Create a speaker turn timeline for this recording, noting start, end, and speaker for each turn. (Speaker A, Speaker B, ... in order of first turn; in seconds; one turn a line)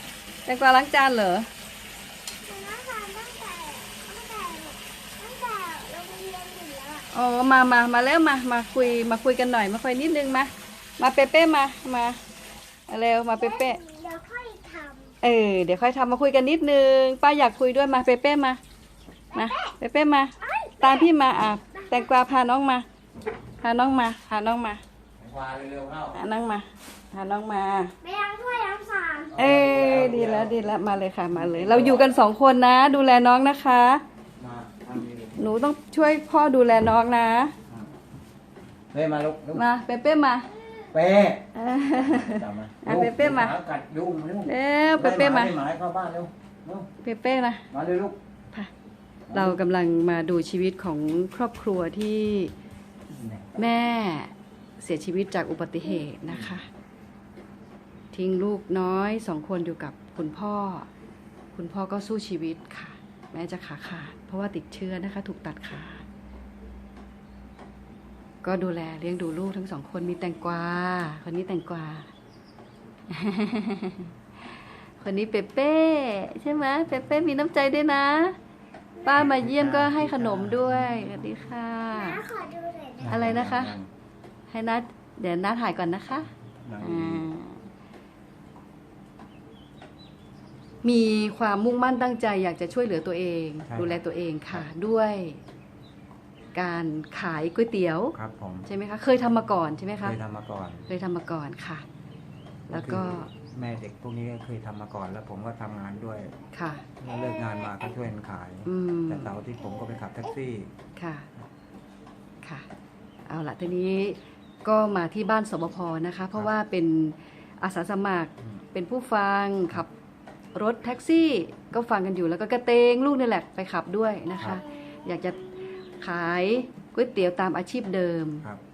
Speaker A: 0.5-1.5
Speaker B: 2.4-7.1
Speaker A: 7.1-12.2
Speaker A: 12.9-13.8
Speaker B: 13.3-15.1
Speaker A: 15.2-18.6
Speaker B: 19.3-19.7
Speaker A: 19.3-22.8
Speaker B: 20.4-21.1
Speaker B: 21.7-22.1
Speaker A: 23.6-24.8
Speaker C: 25.2-26.2
Speaker A: 26.1-27.9
Speaker B: 28.0-29.4
Speaker C: 29.3-30.6
Speaker A: 29.4-34.0
Speaker C: 31.3-32.1
Speaker C: 34.4-35.4
Speaker A: 35.4-37.5
Speaker C: 38.9-39.6
Speaker A: 39.5-40.5
Speaker C: 40.9-46.9
Speaker A: 41.5-43.6
Speaker A: 44.5-45.6
Speaker A: 47.0-47.6
Speaker C: 47.7-48.2
Speaker C: 49.3-49.6
Speaker A: 49.3-52.5
Speaker C: 53.1-53.6
Speaker A: 53.5-56.7
Speaker C: 56.3-56.5
Speaker A: 58.1-60.9
Speaker A: 61.5-66.0
Speaker A: 68.4-72.1
Speaker A: 73.1-74.1
Speaker A: 75.0-78.3
Speaker A: 79.0-82.2
Speaker C: 79.1-81.1
Speaker B: 81.9-83.1
Speaker C: 83.0-83.9
Speaker A: 83.1-83.8
Speaker A: 84.5-87.6
Speaker C: 86.6-87.3
Speaker A: 90.8-95.4
Speaker C: 93.7-94.0
Speaker A: 96.5-100.2
Speaker C: 98.1-98.7
Speaker C: 100.0-100.9
Speaker A: 100.9-101.8
Speaker A: 102.7-103.3
Speaker C: 102.7-106.3
Speaker A: 106.5-106.9
Speaker C: 107.0-110.7
Speaker A: 108.7-109.3
Speaker A: 111.0-111.3
Speaker A: 113.3-119.9
Speaker A: 120.5-125.4
Speaker C: 124.3-124.6
Speaker A: 126.0-128.5